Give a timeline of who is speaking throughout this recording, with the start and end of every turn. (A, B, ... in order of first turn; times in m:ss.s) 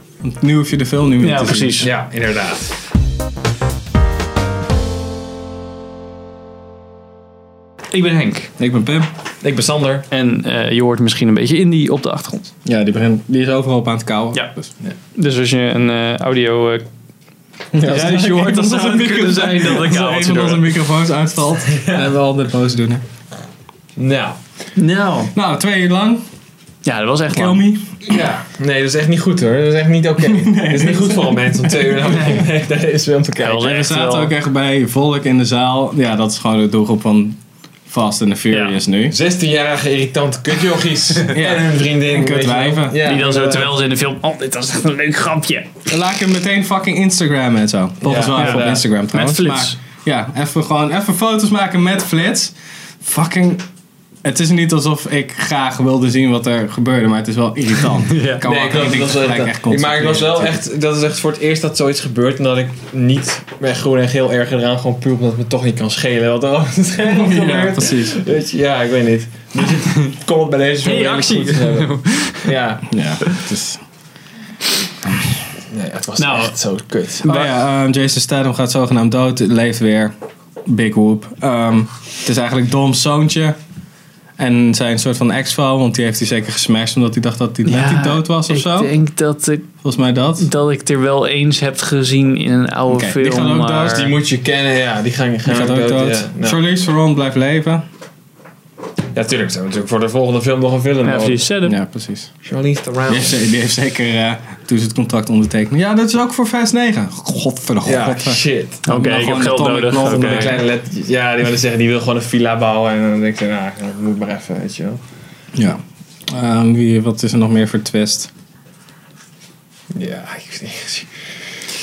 0:00.2-0:01.9 A
0:01.2-0:01.9 B
0:01.8-0:02.7 C
0:07.9-0:08.5 B
0:08.6-0:09.1 A
0:09.4-0:10.0 C
0:10.1-0:12.5 B
0:12.6-0:14.7 A
0:15.1-0:16.8 B
0:17.7-0:23.0 A
0:17.8-0:20.7 B
0:21.7-0:22.1 C
0:24.0-0:24.4 C
0:24.8-0:25.3 B
0:25.3-0:26.2 A
0:26.8-0:27.6 B
0:27.3-0:28.0 A
0:28.1-0:33.7 C
0:30.2-0:32.4 A
0:33.4-0:34.3 B
0:33.6-0:37.4 A
0:37.9-0:39.2 A
0:38.5-0:38.8 B
0:39.1-0:43.7 C
0:41.3-0:43.0 A
0:43.0-0:45.7 B
0:45.9-0:53.6 A
0:48.0-0:48.9 C
0:48.3-0:49.8 B
0:54.2-1:00.6 A
0:58.1-0:58.4 B
0:58.4-1:12.8 C
1:07.0-1:08.2 A
1:10.8-1:12.5 B
1:12.9-1:13.8 A
1:15.7-1:17.5 C
1:16.2-1:16.6 B
1:17.2-1:20.1 A
1:20.7-1:23.6 A
1:24.4-1:28.9 A
1:27.6-1:29.7 B
1:29.8-1:30.5 A
1:30.4-1:34.1 B
1:32.9-1:34.1 A
1:33.9-1:36.6 C
1:35.4-1:37.8 A
1:39.1-1:41.5 C
1:41.0-1:41.8 B
1:41.6-1:42.3 A
1:42.4-1:43.4 C
1:43.1-1:50.6 A
1:47.8-1:48.8 C
1:48.8-1:50.5 B
1:50.0-1:55.0 C
1:55.5-1:58.3 A
1:59.9-2:01.1 C